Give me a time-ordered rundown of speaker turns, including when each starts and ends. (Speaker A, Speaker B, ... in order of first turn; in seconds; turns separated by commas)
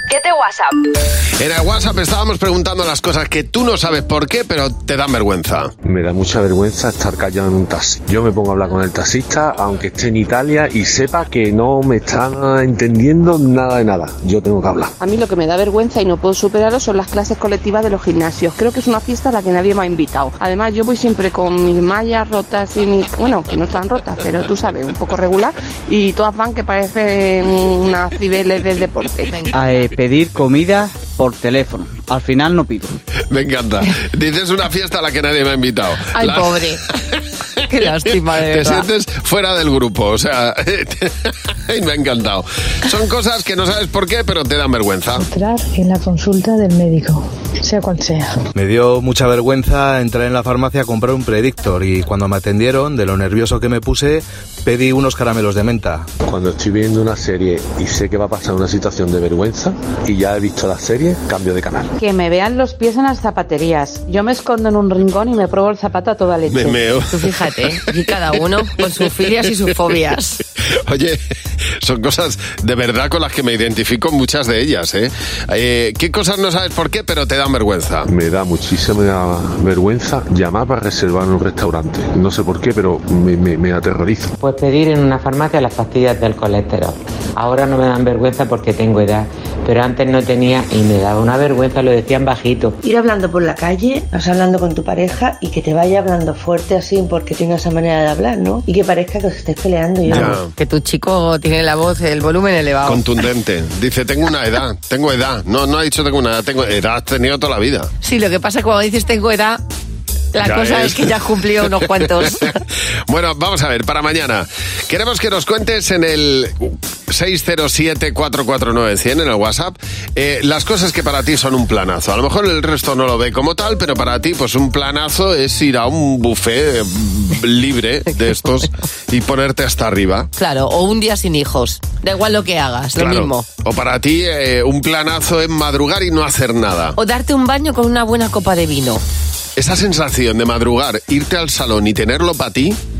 Speaker A: 1.4-5.7, Speaker B: 5.8-14.9, Speaker C: 15.0-29.4, Speaker D: 29.5-33.0, Speaker A: 33.3-36.8, Speaker E: 36.1-36.8, Speaker E: 37.6-38.9, Speaker A: 38.0-45.2, Speaker F: 45.1-48.4, Speaker G: 48.5-56.1, Speaker B: 56.2-61.9, Speaker H: 62.0-66.8, Speaker A: 66.5-67.3, Speaker E: 67.1-70.4, Speaker A: 70.8-71.2, Speaker A: 71.8-78.1, Speaker B: 78.1-84.3, Speaker I: 84.4-92.8, Speaker J: 92.8-100.4, Speaker E: 100.1-103.0, Speaker A: 100.1-100.5, Speaker A: 102.8-107.9, Speaker E: 108.0-109.6, Speaker E: 110.3-112.5, Speaker A: 110.4-112.5, Speaker A: 113.1-130.3, Speaker E: 130.3-133.4, Speaker A: 132.9-137.0, Speaker E: 137.0-139.0, Speaker A: 139.6-142.8